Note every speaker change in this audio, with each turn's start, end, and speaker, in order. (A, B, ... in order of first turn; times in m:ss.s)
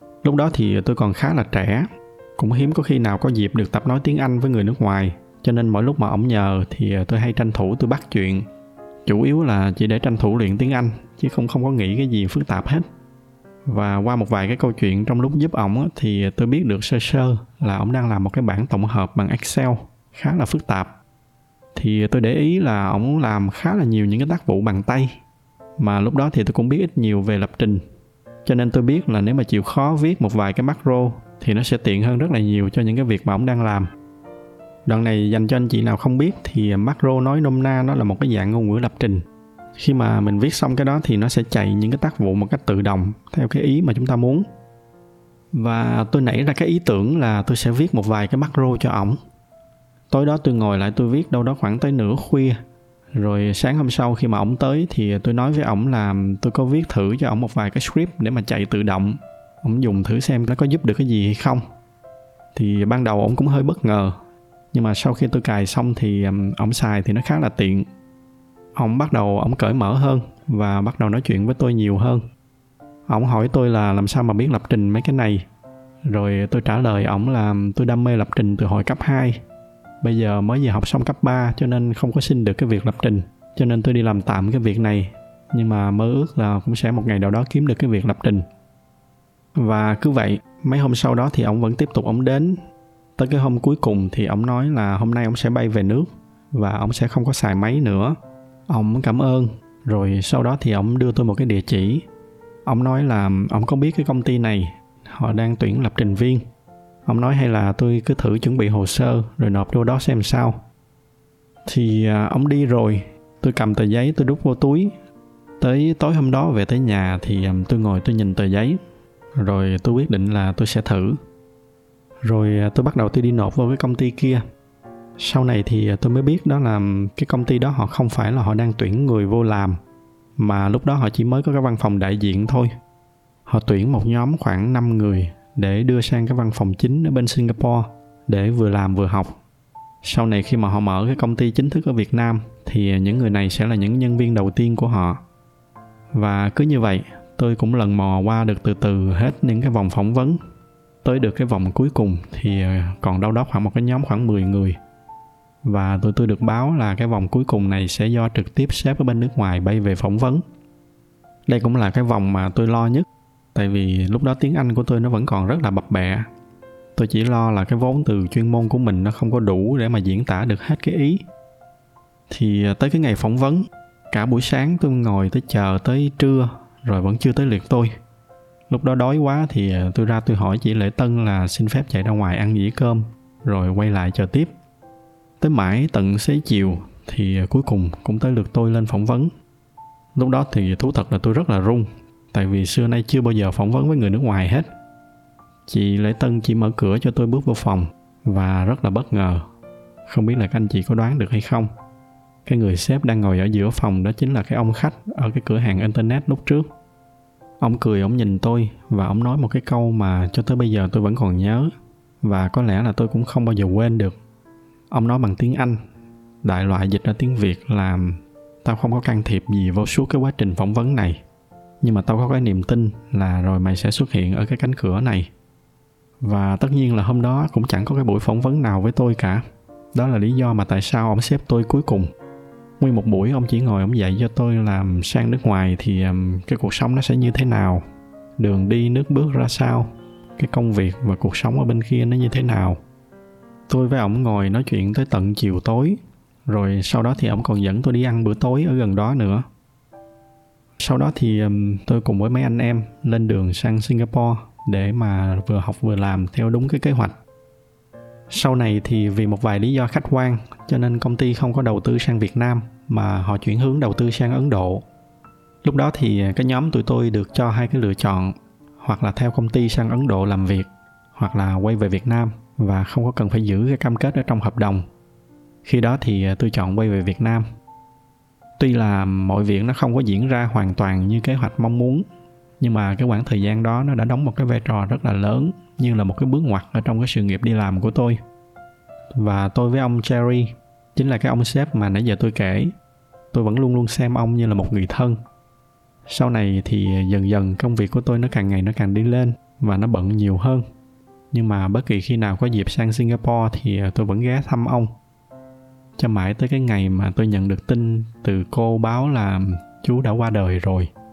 0:00.2-0:08.4 A
0:09.0-0:12.8 A
0:13.6-0:20.9 A
0:21.7-0:25.2 A
0:25.8-0:27.8 A
0:28.4-0:33.9 A
0:34.8-0:39.2 A
0:39.8-0:44.4 A
0:45.5-0:49.2 A
0:50.1-0:52.6 A
0:53.1-1:01.6 A
1:02.5-1:04.2 A
1:04.7-1:07.9 A
1:08.7-1:12.2 A
1:13.1-1:15.4 A
1:16.0-1:19.4 A
1:20.0-1:28.5 A
1:29.6-1:32.6 A
1:33.2-1:38.2 A
1:38.7-1:42.0 A
1:42.6-1:46.4 A
1:47.0-1:50.6 A
1:51.6-1:54.9 A
1:55.6-1:58.8 A
1:59.4-2:01.2 A
2:02.2-2:04.4 A
2:05.2-2:09.8 A
2:10.4-2:12.7 A
2:13.5-2:19.4 A
2:20.0-2:25.2 A
2:26.1-2:30.4 A
2:31.0-2:34.8 A
2:35.6-2:40.4 A
2:41.5-2:46.3 A
2:46.9-2:51.2 A
2:52.3-2:57.9 A
2:58.7-3:04.5 A
3:05.4-3:09.3 A
3:10.1-3:14.7 A
3:15.7-3:19.4 A
3:20.1-3:21.7 A
3:22.4-3:26.7 A
3:27.6-3:31.7 A
3:32.2-3:34.2 A
3:34.9-3:35.8 A
3:36.4-3:41.2 A
3:41.8-3:45.3 A
3:46.2-3:52.1 A
3:52.8-3:57.8 A
3:58.4-4:02.8 A
4:03.7-4:09.4 A
4:10.8-4:17.2 A
4:18.3-4:24.8 A
4:25.6-4:34.8 A
4:35.6-4:37.4 A
4:38.6-4:42.0 A
4:42.6-4:48.2 A
4:49.1-4:52.7 A
4:53.3-4:55.2 A
4:56.1-5:00.6 A
5:01.3-5:04.9 A
5:06.0-5:10.9 A